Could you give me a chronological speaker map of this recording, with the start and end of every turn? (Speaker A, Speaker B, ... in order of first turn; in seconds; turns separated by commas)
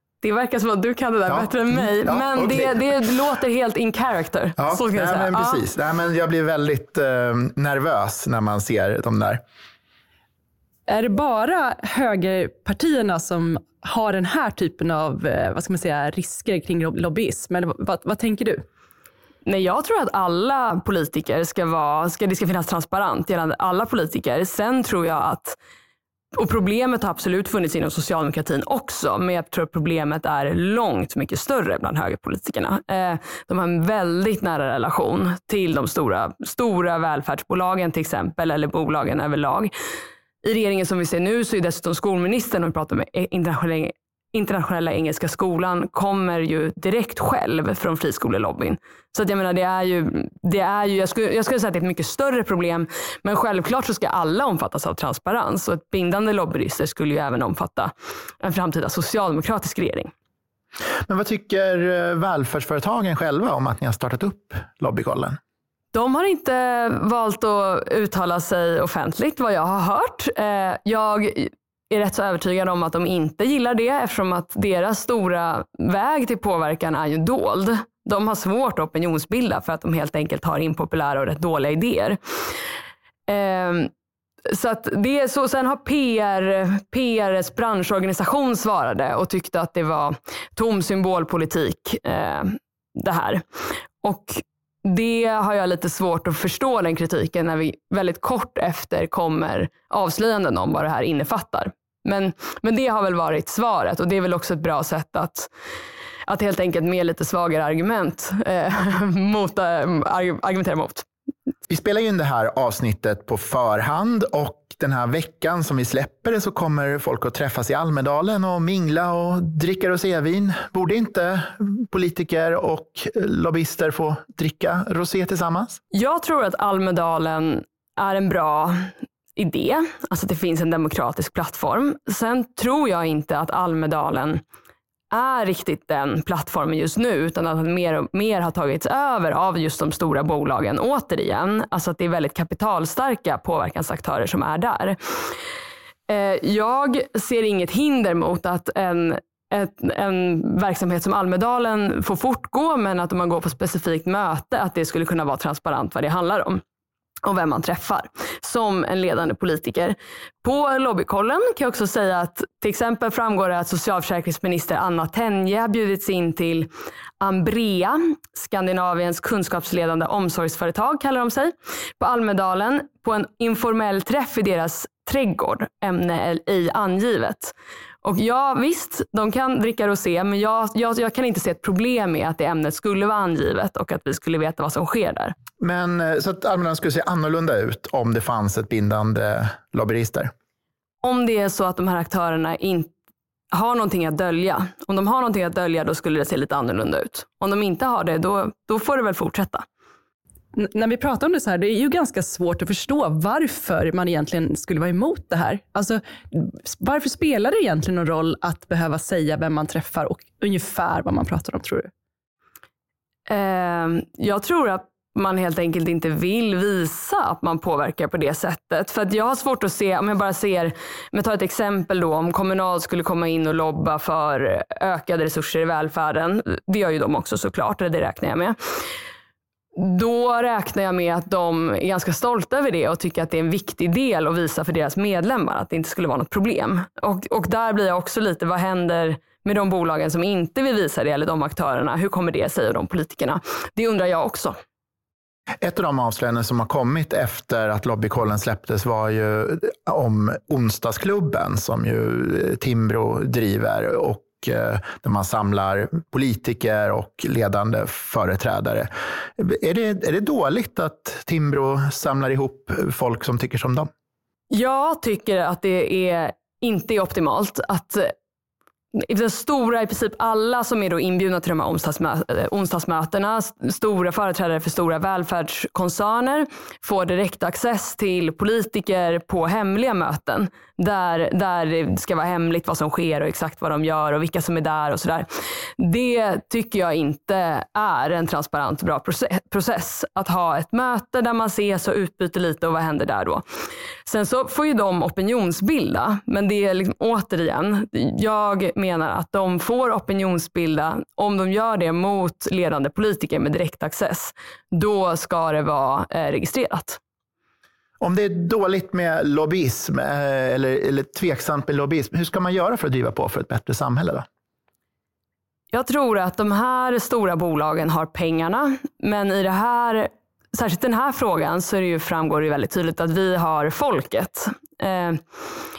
Speaker A: 0.2-5.6, Speaker B: 1.3-2.8, Speaker B: 4.6-9.4, Speaker C: 10.9-18.6, Speaker A: 19.5-25.6, Speaker A: 26.3-39.7, Speaker A: 40.4-60.1, Speaker B: 61.1-65.4, Speaker A: 65.9-82.2, Speaker A: 83.3-83.9, Speaker A: 84.5-93.4, Speaker A: 94.0-105.5, Speaker A: 106.3-111.0, Speaker B: 111.7-125.8, Speaker A: 125.9-134.4, Speaker A: 135.1-145.0, Speaker A: 146.1-156.6, Speaker A: 157.2-185.4, Speaker B: 185.6-190.3, Speaker A: 191.0-192.9, Speaker A: 193.5-199.6, Speaker C: 200.6-211.9, Speaker A: 213.3-228.6, Speaker A: 229.8-244.5, Speaker B: 245.6-263.9, Speaker A: 264.5-268.1, Speaker A: 268.9-285.3, Speaker A: 285.8-293.4, Speaker A: 294.1-307.0, Speaker B: 308.0-314.2, Speaker A: 315.7-325.2